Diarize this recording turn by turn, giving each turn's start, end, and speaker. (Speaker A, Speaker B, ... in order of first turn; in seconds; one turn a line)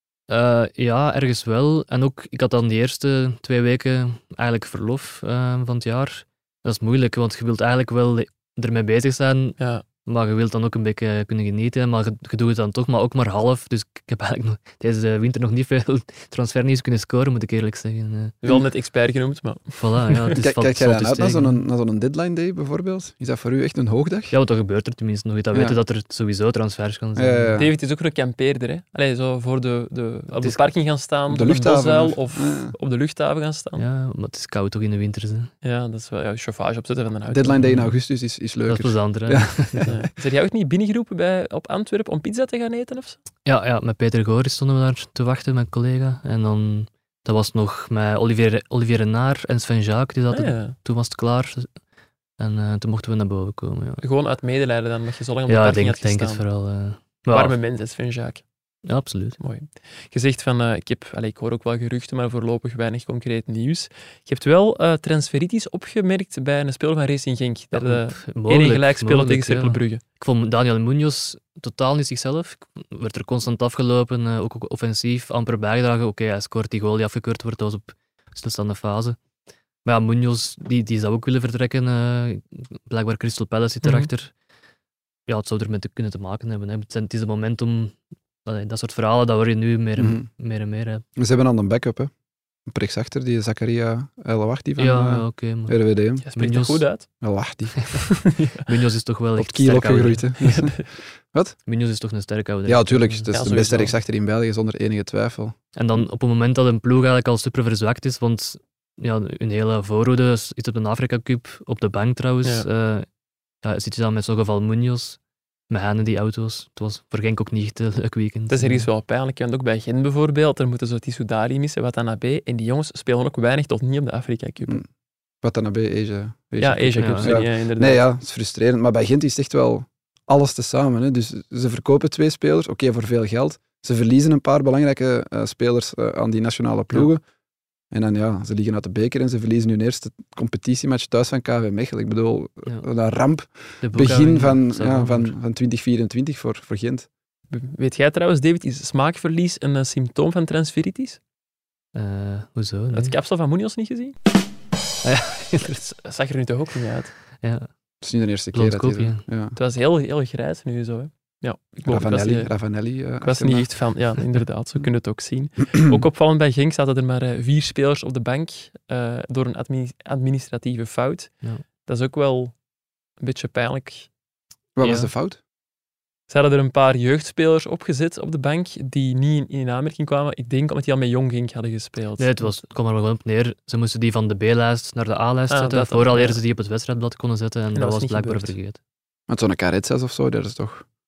Speaker A: 0.3-18.4
Speaker B: 9.6-9.8
Speaker B: 18.4-20.3
Speaker A: 19.8-21.6
Speaker C: 20.4-24.4
Speaker A: 24.3-27.6
Speaker C: 27.2-27.7
Speaker B: 27.6-33.8
Speaker C: 31.3-32.8
Speaker A: 33.8-35.5
Speaker B: 35.6-37.6
Speaker C: 37.3-39.9
Speaker A: 37.6-37.9
Speaker A: 38.7-39.9
Speaker B: 39.9-43.2
Speaker A: 43.5-51.7
Speaker B: 50.3-50.8
Speaker A: 52.4-54.0
Speaker B: 54.0-56.4
Speaker A: 55.5-57.5
Speaker B: 57.3-58.4
Speaker A: 58.9-59.4
Speaker B: 59.4-70.0
Speaker A: 67.7-79.2
Speaker A: 79.8-84.3
Speaker B: 83.8-84.1
Speaker A: 85.3-91.0
Speaker C: 90.0-90.3
Speaker C: 91.2-92.1
Speaker C: 92.7-96.2
Speaker A: 94.8-95.8
Speaker B: 96.2-97.1
Speaker A: 96.4-96.8
Speaker C: 97.2-97.9
Speaker B: 97.9-98.7
Speaker A: 98.7-100.4
Speaker C: 99.4-101.6
Speaker B: 100.5-100.8
Speaker A: 101.7-103.3
Speaker C: 102.7-105.6
Speaker B: 103.3-103.9
Speaker A: 105.8-113.1
Speaker A: 113.6-115.2
Speaker A: 115.7-118.9
Speaker B: 118.5-124.8
Speaker C: 125.4-137.2
Speaker B: 126.6-128.1
Speaker A: 127.0-127.4
Speaker C: 137.9-147.1
Speaker A: 143.8-145.3
Speaker B: 144.0-144.3
Speaker B: 147.5-151.2
Speaker A: 151.9-153.2
Speaker B: 152.9-154.2
Speaker A: 155.0-155.8
Speaker B: 155.7-157.1
Speaker A: 157.4-157.7
Speaker C: 158.0-159.6
Speaker A: 158.5-159.2
Speaker B: 159.6-162.5
Speaker C: 161.9-163.7
Speaker B: 163.2-172.6
Speaker B: 173.2-174.1
Speaker C: 174.8-175.4
Speaker A: 174.8-175.1
Speaker B: 176.3-182.5
Speaker A: 182.2-188.8
Speaker B: 185.5-186.4
Speaker B: 187.7-188.6
Speaker C: 189.3-190.8